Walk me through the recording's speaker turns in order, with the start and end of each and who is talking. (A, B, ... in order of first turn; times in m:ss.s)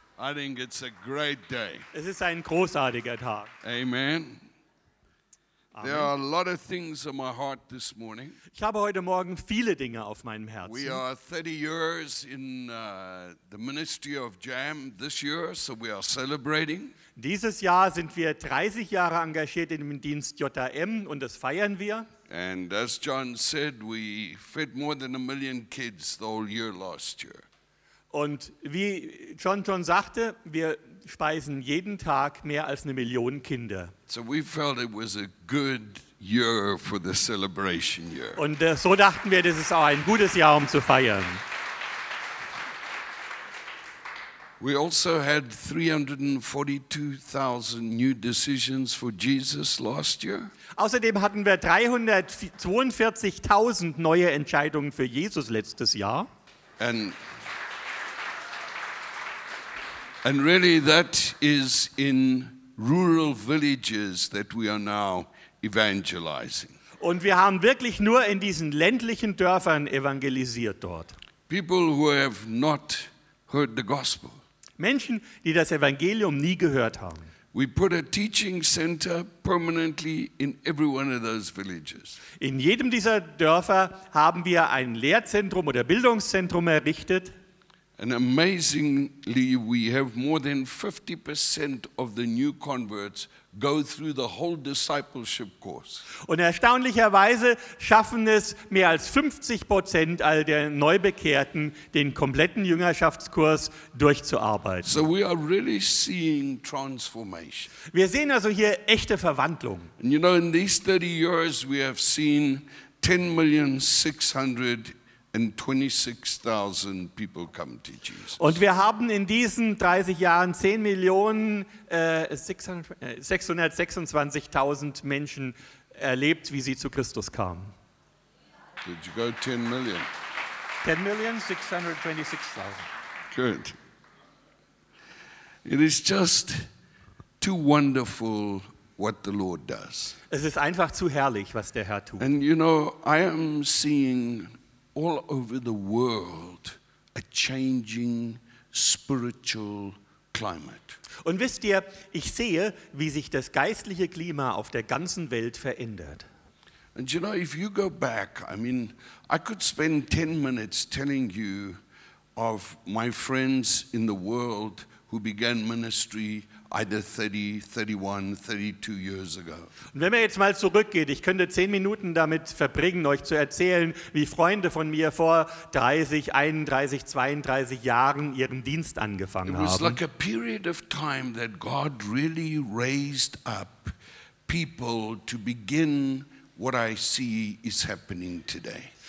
0:00.2-0:01.8 A
0:01.9-0:03.5 B
0:03.6-0:04.5 A
0:05.7-0:06.1 B
0:05.8-0:08.4 A
0:08.5-0:11.0 B
0:10.6-0:16.9 A
0:17.2-0:22.1 B
0:22.3-0:27.4 A
0:28.1-0:33.9 B
0:34.1-0:38.4 A
0:38.4-0:41.4 B
0:44.6-0:50.5 A
0:50.7-0:56.3 B
0:56.8-0:57.2 A
1:00.2-1:06.8 A
1:07.0-1:11.1 B
1:11.5-1:14.4 A
1:14.8-1:17.3 B
1:17.5-1:22.2 A
1:22.4-1:27.3 B
1:28.0-1:36.0 A
1:36.2-1:45.0 B
1:44.8-1:47.7 A
1:47.9-1:49.9 B
1:50.0-1:58.5 A
1:58.4-2:07.7 B
2:08.8-2:10.1 A
2:10.8-2:12.9 B
2:13.3-2:13.8 A
2:15.6-2:16.6 A
2:17.4-2:20.2 A
2:20.3-2:22.2 B
2:22.2-2:31.0 A
2:31.2-2:36.2 B
2:36.9-2:41.8 A
2:42.4-2:49.7 A
2:49.9-3:00.0 B
2:59.4-3:03.9 A
3:04.5-3:08.9 A